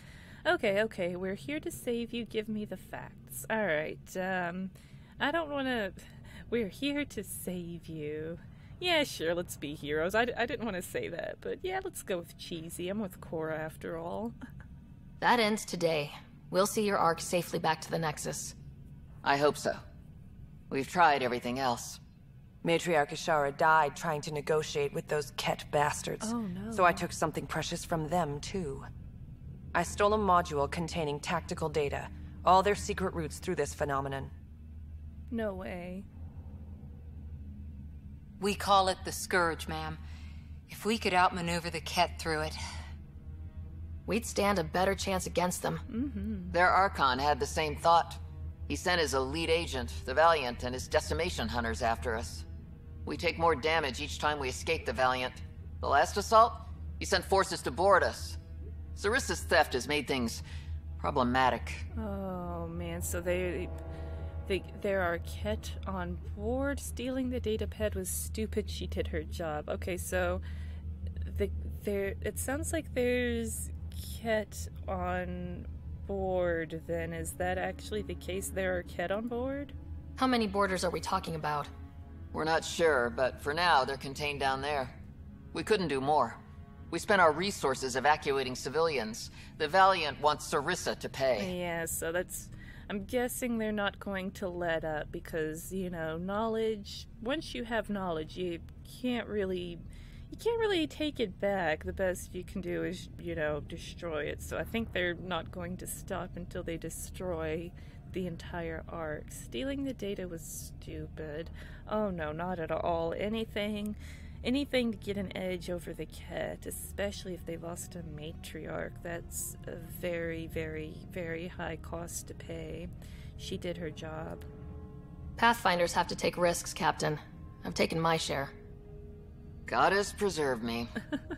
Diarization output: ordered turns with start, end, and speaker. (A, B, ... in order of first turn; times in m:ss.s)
0:00.4-0:14.3 A
0:15.2-0:18.5 B
0:19.2-0:19.8 C
0:20.7-0:22.0 C
0:22.6-0:28.9 D
0:26.2-0:27.0 A
0:29.7-0:34.3 D
0:35.3-0:36.1 A
0:38.4-0:40.0 E
0:40.7-0:42.6 E
0:44.1-0:45.8 B
0:45.9-0:46.5 A
0:46.5-0:52.4 C
0:53.0-0:58.4 C
0:59.0-1:00.4 C
1:01.0-1:01.8 C
1:01.9-1:03.7 A
1:04.4-1:10.4 A
1:11.2-1:19.7 A
1:20.2-1:21.7 B
1:22.3-1:24.9 C
1:25.5-1:26.4 C
1:26.9-1:31.5 C
1:31.4-2:04.4 A
2:05.4-2:08.5 B
2:09.7-2:10.9 C